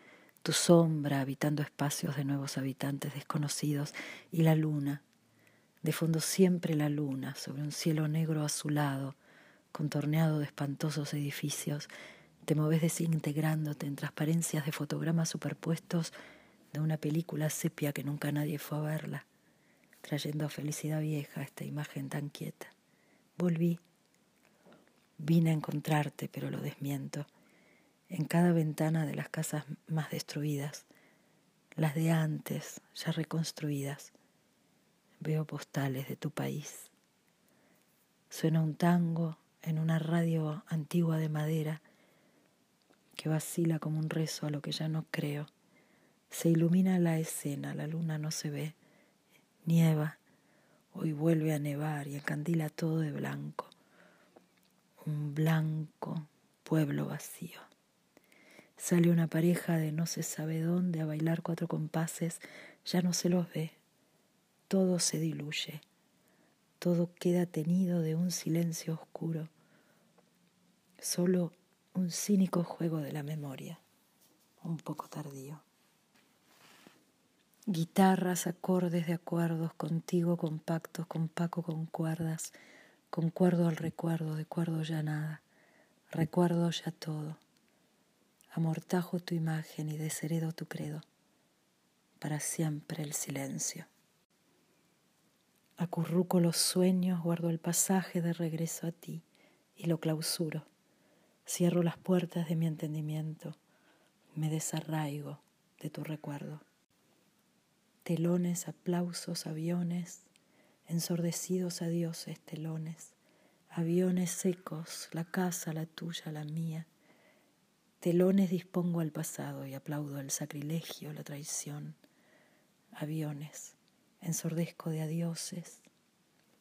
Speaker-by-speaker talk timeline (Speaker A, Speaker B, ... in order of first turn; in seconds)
Speaker A: 0.4-5.0, 5.8-9.2, 9.7-11.9, 12.5-16.1, 16.7-19.3, 20.0-22.7, 23.4-23.8, 25.2-27.3, 28.1-30.9, 31.8-34.1, 35.2-36.9, 38.3-41.8, 43.2-45.5, 46.3-48.8, 49.6-50.2, 50.9-53.7, 55.0-57.7, 58.8-63.8, 64.7-65.8, 66.8-69.5, 71.0-73.8, 74.6-75.7, 77.7-82.5, 83.1-85.4, 86.1-87.4, 88.5-91.0, 92.2-93.9, 95.8-99.2, 99.8-100.7, 101.5-103.6, 104.4-106.6, 108.0-110.3, 110.9-113.2, 113.7-116.9, 118.0-122.0, 123.0-125.8